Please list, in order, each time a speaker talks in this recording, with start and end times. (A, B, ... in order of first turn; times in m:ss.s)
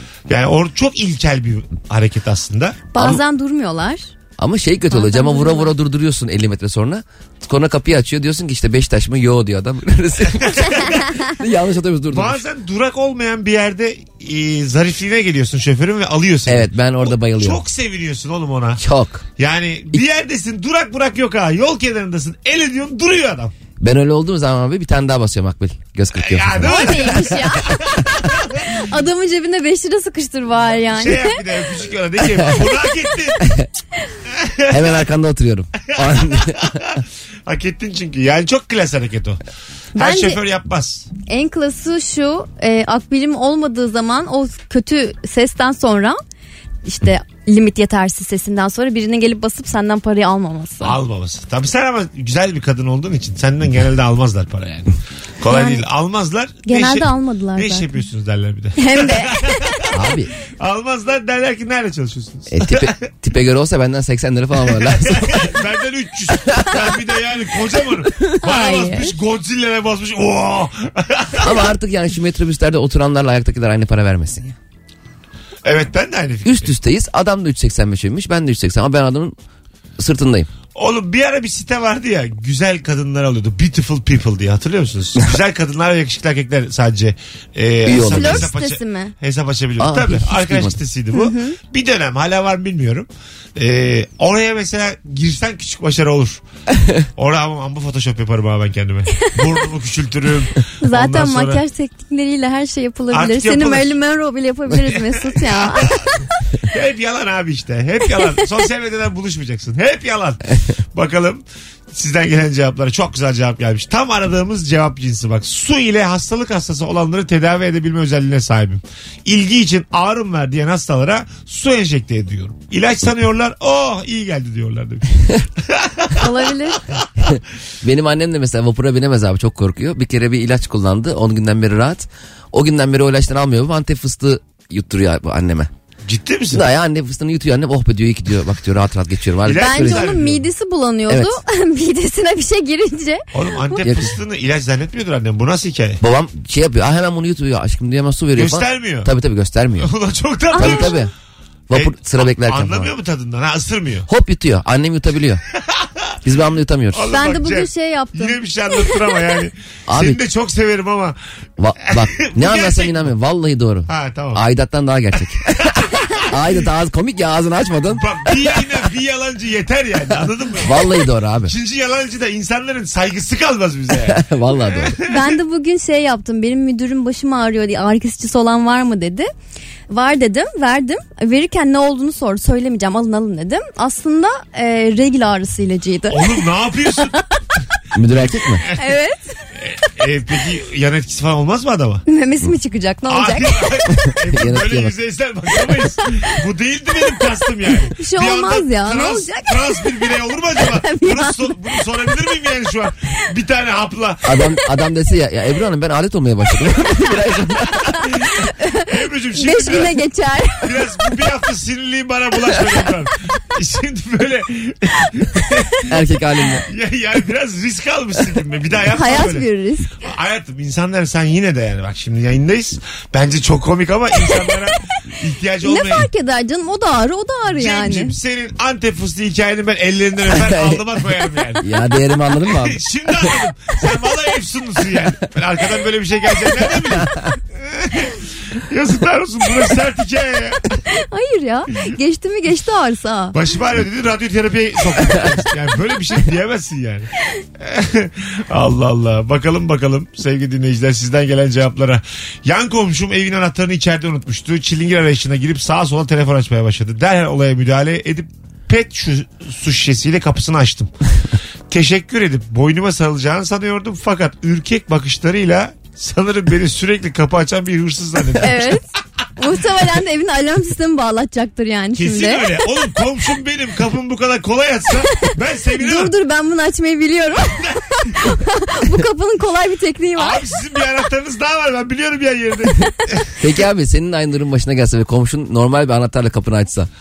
0:00.3-0:02.9 A
0:02.9-0:04.1 B
0:04.4-0:12.4 C
0:04.9-0:05.7 B
0:10.4-0:11.0 A
0:12.1-0:18.8 A
0:16.5-0:17.6 C
0:18.8-0:19.2 C
0:19.4-0:23.5 A
0:23.8-0:27.4 C
0:26.1-0:28.8 A
0:26.6-0:27.8 B
0:28.7-0:31.4 B
0:30.9-0:33.5 A
0:34.3-0:35.0 A
0:34.7-0:36.8 C
0:35.9-0:39.4 A
0:40.0-0:40.4 B
0:40.0-0:41.1 A
0:41.3-0:46.2 B
0:46.8-0:51.0 B
0:50.8-0:59.9 A
0:55.5-0:55.8 B
0:56.6-0:57.9 B
0:58.8-0:59.9 B
0:59.9-1:00.3 C
1:00.5-1:02.9 A
1:02.5-1:05.5 C
1:04.6-1:11.7 A
1:08.3-1:09.2 B
1:11.4-1:14.6 C
1:15.6-1:16.7 A
1:16.4-1:19.3 C
1:20.0-1:20.5 C
1:20.7-1:36.4 A
1:27.8-1:28.5 C
1:27.9-1:29.1 B
1:29.8-1:30.8 C
1:31.1-1:31.6 B
1:37.2-1:41.6 A
1:40.8-1:46.0 B
1:43.1-1:44.0 A
1:44.8-1:46.1 A
1:46.7-1:50.4 A
1:50.9-2:06.3 A
2:06.1-2:06.8 B
2:07.2-2:15.7 C
2:16.0-2:16.7 A
2:16.5-2:20.1 C
2:19.4-2:20.4 A
2:19.5-2:23.8 B
2:21.1-2:21.4 C
2:23.3-2:26.0 A
2:23.8-2:24.2 C
2:26.0-2:29.9 C
2:28.3-2:29.1 A
2:29.8-2:31.0 A
2:30.5-2:31.0 B
2:30.5-2:31.1 C
2:31.7-2:32.9 C
2:31.7-2:34.1 A
2:34.1-2:35.4 C
2:36.2-2:37.1 C
2:36.9-2:41.2 A
2:37.1-2:39.2 B
2:39.9-2:40.2 C
2:41.6-2:48.0 C
2:42.0-2:43.1 A
2:43.9-2:44.4 A
2:47.9-2:55.4 A
2:50.6-2:51.5 C
2:54.0-2:55.0 C
2:55.0-2:59.3 B
2:59.9-3:06.4 B
3:06.1-3:07.2 A
3:07.0-3:07.2 B
3:07.9-3:08.6 C
3:08.7-3:09.4 B
3:09.6-3:12.0 A
3:12.1-3:13.6 B
3:13.1-3:24.4 A
3:14.0-3:14.9 C
3:18.0-3:19.9 B
3:20.6-3:21.6 B
3:24.2-3:27.9 C
3:28.3-3:31.0 B
3:28.8-3:30.0 A
3:30.6-3:35.9 A
3:35.9-3:36.7 C
3:36.7-3:39.4 A
3:38.9-3:40.0 B
3:40.0-3:46.1 A
3:45.6-3:48.1 B
3:47.5-3:51.6 A
3:50.3-3:50.8 C
3:51.6-3:53.3 C
3:52.4-4:00.8 A
4:00.9-4:03.4 B
4:03.3-4:20.9 A
4:21.7-4:28.8 A
4:28.4-4:28.8 B
4:29.4-4:32.6 B
4:31.9-4:36.1 A
4:35.2-4:40.5 B
4:40.1-4:43.3 A
4:43.4-4:46.9 C